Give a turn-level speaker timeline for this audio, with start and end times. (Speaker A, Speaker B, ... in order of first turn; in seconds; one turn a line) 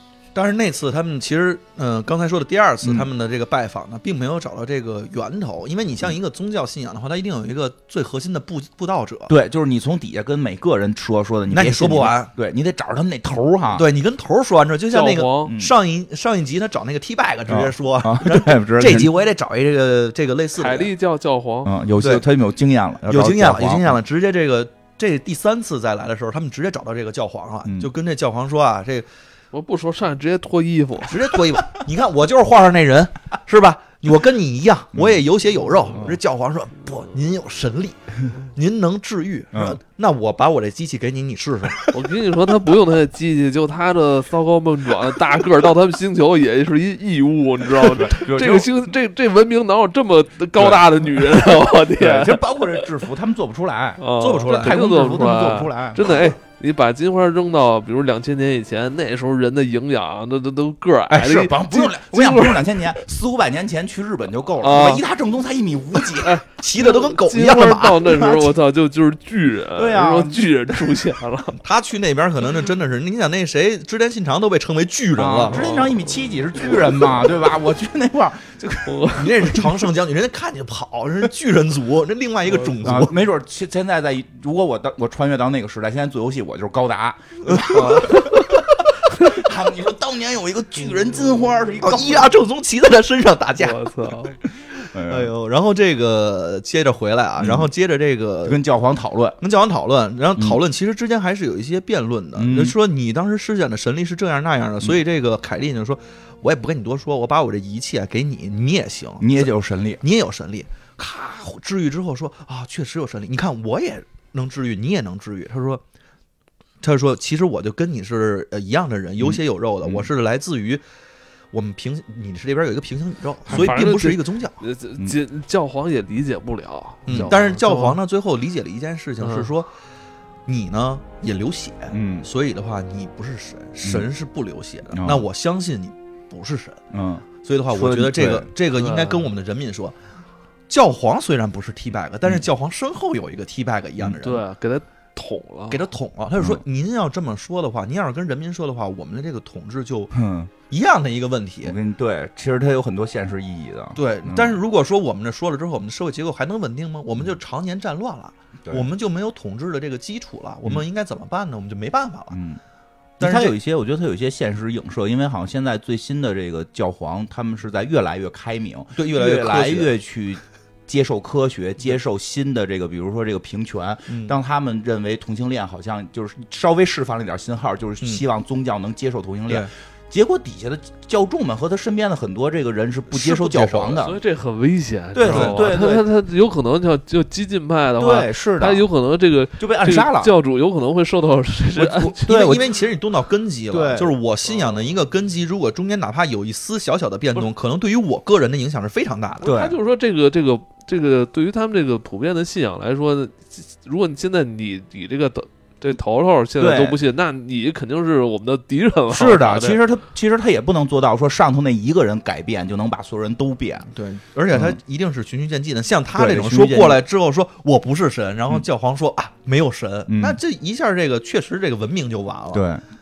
Speaker A: 0.3-9.3
Speaker B: 9.3-13.9
Speaker A: 11.5-12.3
Speaker A: 13.7-20.9
Speaker C: 14.9-15.6
Speaker B: 15.5-15.7
Speaker B: 17.5-19.1
Speaker C: 20.6-21.7
Speaker B: 21.6-24.0
Speaker A: 22.0-22.2
Speaker A: 23.1-29.1
Speaker B: 27.6-27.9
Speaker C: 29.5-31.2
Speaker A: 31.1-41.9
Speaker B: 34.9-35.2
Speaker B: 35.9-36.2
Speaker B: 39.5-39.8
Speaker C: 41.9-52.8
Speaker B: 47.8-48.7
Speaker B: 50.5-56.2
Speaker C: 54.0-62.8
Speaker A: 54.2-54.8
Speaker B: 61.1-66.4
Speaker C: 64.6-65.0
Speaker C: 66.2-71.6
Speaker A: 66.5-68.3
Speaker B: 68.2-68.5
Speaker B: 69.7-70.5
Speaker A: 71.6-75.7
Speaker B: 75.2-79.6
Speaker C: 75.5-76.1
Speaker C: 78.8-79.5
Speaker A: 79.2-83.1
Speaker B: 82.8-92.3
Speaker A: 87.5-88.2
Speaker C: 87.7-88.5
Speaker C: 89.1-89.4
Speaker A: 91.8-93.9
Speaker C: 93.6-94.3
Speaker B: 94.8-95.3
Speaker A: 95.0-98.6
Speaker B: 97.4-97.7
Speaker B: 98.4-99.4
Speaker A: 99.4-115.8
Speaker B: 102.3-102.7
Speaker B: 109.2-110.0
Speaker A: 116.8-120.8
Speaker B: 119.2-120.1
Speaker A: 121.5-124.6
Speaker C: 123.5-128.0
Speaker A: 127.1-129.7
Speaker C: 129.2-129.5
Speaker A: 130.5-136.8
Speaker B: 131.9-132.3
Speaker B: 134.9-135.2
Speaker B: 136.9-138.5
Speaker A: 137.4-139.9
Speaker C: 138.7-139.3
Speaker A: 140.7-144.4
Speaker C: 144.2-145.8
Speaker A: 145.7-150.1
Speaker B: 150.1-150.5
Speaker A: 150.7-151.7
Speaker B: 151.6-154.6
Speaker A: 153.9-162.4
Speaker B: 162.3-162.6
Speaker A: 163.2-163.5
Speaker B: 163.2-184.2
Speaker A: 168.9-169.9
Speaker A: 174.1-174.3
Speaker A: 183.1-184.0
Speaker C: 184.0-192.6
Speaker B: 185.1-186.1
Speaker A: 185.3-185.6
Speaker B: 188.0-188.8
Speaker B: 189.6-190.3
Speaker A: 191.8-199.5
Speaker B: 191.8-192.6
Speaker B: 193.7-194.1
Speaker C: 199.4-209.8
Speaker B: 199.4-199.8
Speaker B: 206.6-207.0
Speaker B: 209.1-213.9
Speaker A: 213.9-222.6
Speaker B: 214.5-214.8
Speaker B: 216.1-217.0
Speaker B: 220.1-220.4
Speaker B: 222.5-222.8